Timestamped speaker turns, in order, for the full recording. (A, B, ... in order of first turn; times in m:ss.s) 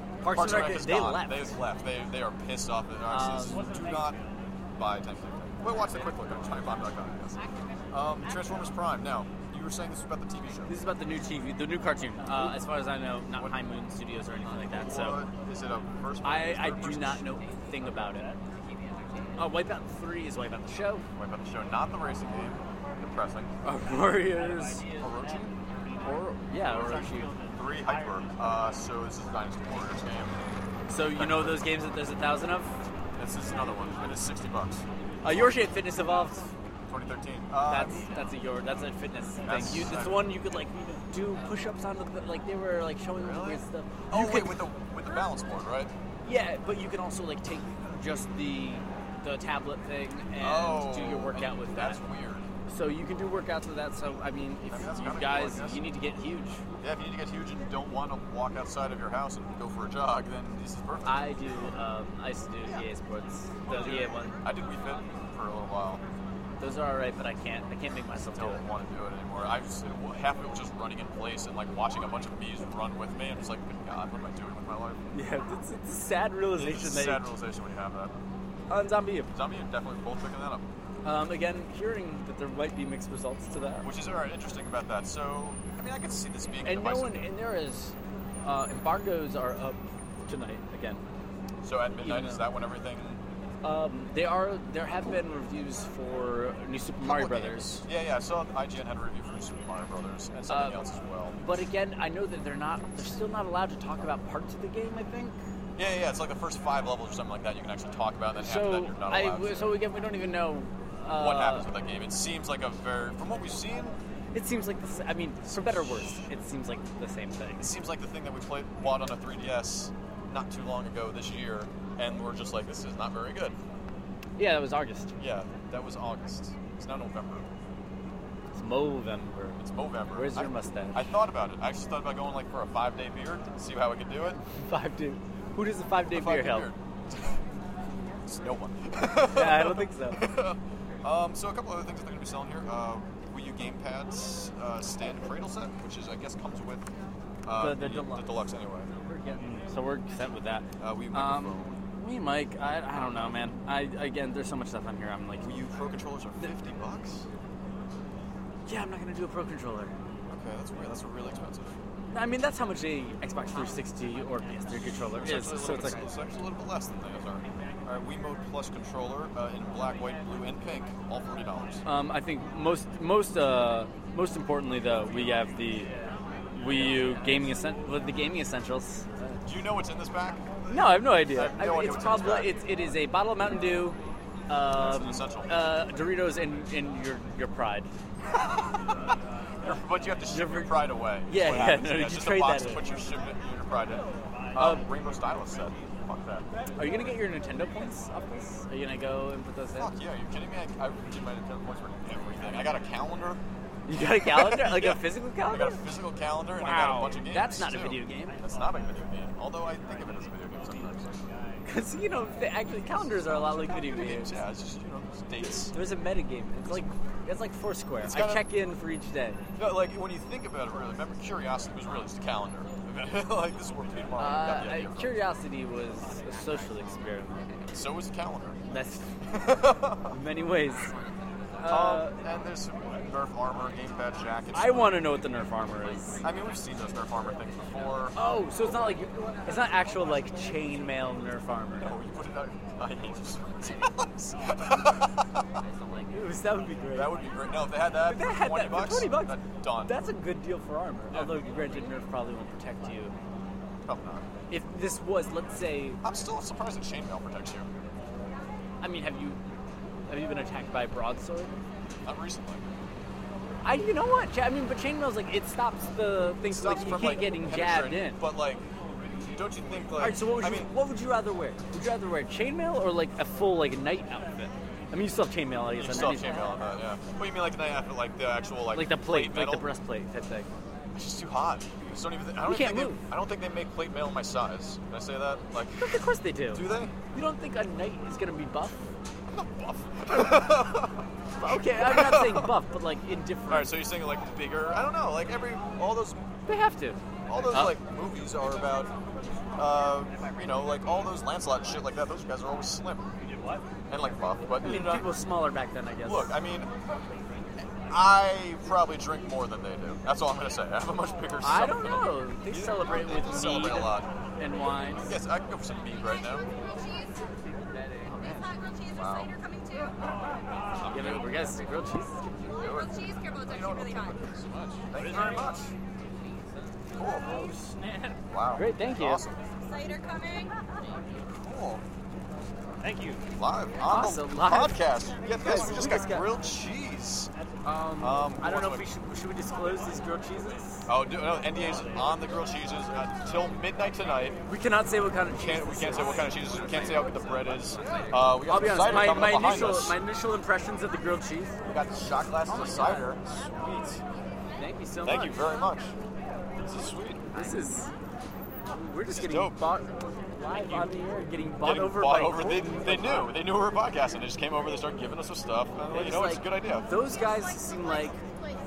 0:00.2-0:01.5 A
0:00.3-0:04.2 B
0:03.1-0:03.8 A
0:04.8-0:10.7 B
0:10.7-0:15.2 A
0:14.4-0:17.3 B
0:16.2-0:18.3 A
0:19.4-0:21.0 A
0:21.2-0:23.5 B
0:23.6-0:24.9 A
0:25.0-0:25.6 B
0:26.0-0:27.3 A
0:26.6-0:30.4 B
0:30.9-0:32.8 A
0:31.1-0:31.6 B
0:33.2-0:35.7 B
0:35.2-0:36.5 A
0:36.9-0:38.1 B
0:37.7-0:44.6 A
0:39.4-0:40.6 B
0:43.1-0:45.9 B
0:46.2-0:52.0 A
0:50.4-0:52.5 B
0:52.7-0:56.6 A
0:54.7-0:55.8 B
0:56.8-1:01.4 B
1:01.0-1:04.4 A
1:03.6-1:06.0 B
1:06.6-1:08.6 A
1:08.3-1:15.0 B
1:15.1-1:17.2 A
1:16.6-1:18.1 B
1:18.7-1:19.3 A
1:19.3-1:20.6 B
1:21.0-1:23.9 A
1:23.8-1:27.3 B
1:26.6-1:31.0 A
1:31.6-1:33.2 B
1:32.0-1:32.4 A
1:33.6-1:37.8 A
1:37.0-1:41.4 B
1:40.5-1:40.8 A
1:41.4-1:45.4 A
1:45.8-1:49.8 B
1:48.4-1:51.6 A
1:51.1-1:54.0 B
1:54.3-1:57.7 A
1:55.5-1:56.2 B
1:57.6-2:03.6 B
2:04.4-2:05.1 A
2:05.2-2:07.5 B
2:08.5-2:09.6 A
2:09.6-2:14.4 B
2:10.1-2:11.0 A
2:14.5-2:16.7 A
2:16.1-2:17.4 B
2:18.2-2:26.9 B
2:19.2-2:20.3 A
2:27.4-2:28.9 B
2:27.6-2:28.3 A
2:29.0-2:35.5 A
2:30.8-2:31.8 B
2:32.9-2:33.4 B
2:35.4-2:37.3 B
2:38.7-2:39.9 A
2:40.3-2:41.8 B
2:42.1-2:46.0 A
2:44.9-2:51.8 B
2:51.8-2:55.9 A
2:56.5-2:59.4 A
2:59.4-3:02.5 B
3:00.7-3:04.0 A
3:04.5-3:07.9 A
3:04.7-3:05.7 B
3:08.3-3:08.9 B
3:09.6-3:16.5 B
3:10.3-3:10.8 A
3:11.3-3:12.8 A
3:14.6-3:14.8 A
3:16.8-3:19.9 A
3:19.8-3:23.4 B
3:23.9-3:25.8 A
3:24.0-3:31.1 B
3:26.6-3:28.4 A
3:31.6-3:34.4 A
3:33.2-3:35.7 B
3:35.7-3:39.4 A
3:38.0-3:38.5 B
3:39.6-3:45.2 B
3:44.2-3:47.7 A
3:47.7-3:48.6 B
3:48.7-3:49.1 A
3:49.2-3:50.2 B
3:50.1-3:50.9 A
3:51.6-3:52.1 A
3:51.7-3:55.1 B
3:54.5-3:56.2 A
3:56.2-3:58.2 B
3:58.1-4:01.9 A
4:01.8-4:05.5 B
4:06.1-4:07.2 A
4:06.9-4:09.9 B
4:08.0-4:13.1 A
4:11.1-4:11.4 B
4:13.8-4:14.2 B
4:14.5-4:16.0 A
4:16.0-4:17.7 B
4:18.8-4:19.4 A
4:20.1-4:21.5 A
4:22.0-4:22.7 B
4:23.6-4:28.2 A
4:26.5-4:28.7 B
4:29.2-4:30.7 B
4:30.0-4:36.6 A
4:35.8-4:39.6 B
4:38.7-4:40.5 A
4:40.9-4:45.9 B
4:42.4-4:43.0 A
4:45.8-4:48.9 A
4:46.5-4:46.9 B
4:49.3-4:52.5 B
4:51.4-4:53.7 A
4:53.5-4:56.2 B
4:56.5-4:57.7 A
4:57.3-4:58.9 B
4:59.6-5:03.1 B
5:03.9-5:05.1 B
5:04.6-5:06.3 A
5:06.0-5:06.7 B
5:07.9-5:14.1 B
5:11.4-5:15.1 A
5:15.0-5:16.5 B
5:16.5-5:17.2 C
5:18.0-5:18.5 A
5:18.2-5:20.0 C
5:18.9-5:19.3 B
5:20.7-5:21.5 B
5:20.9-5:22.3 A
5:22.5-5:24.2 C
5:22.5-5:25.7 B
5:26.9-5:27.4 B
5:27.3-5:28.0 A
5:28.3-5:29.4 B
5:28.5-5:29.2 A
5:29.6-5:30.6 C
5:31.3-5:31.8 B
5:32.9-5:33.2 A
5:33.4-5:37.3 B
5:33.8-5:36.3 A
5:37.6-5:40.9 A
5:38.0-5:38.9 B
5:40.9-5:44.4 B
5:44.5-5:46.3 A
5:45.4-5:50.0 B
5:48.4-5:51.6 A
5:51.6-5:54.0 B
5:52.5-5:53.1 A
5:54.6-5:55.4 A
5:55.0-5:55.9 B
5:56.6-5:57.4 B
5:57.3-5:57.9 A
5:58.7-6:03.3 A
5:59.1-5:59.6 B
6:01.6-6:06.9 B
6:05.9-6:08.2 A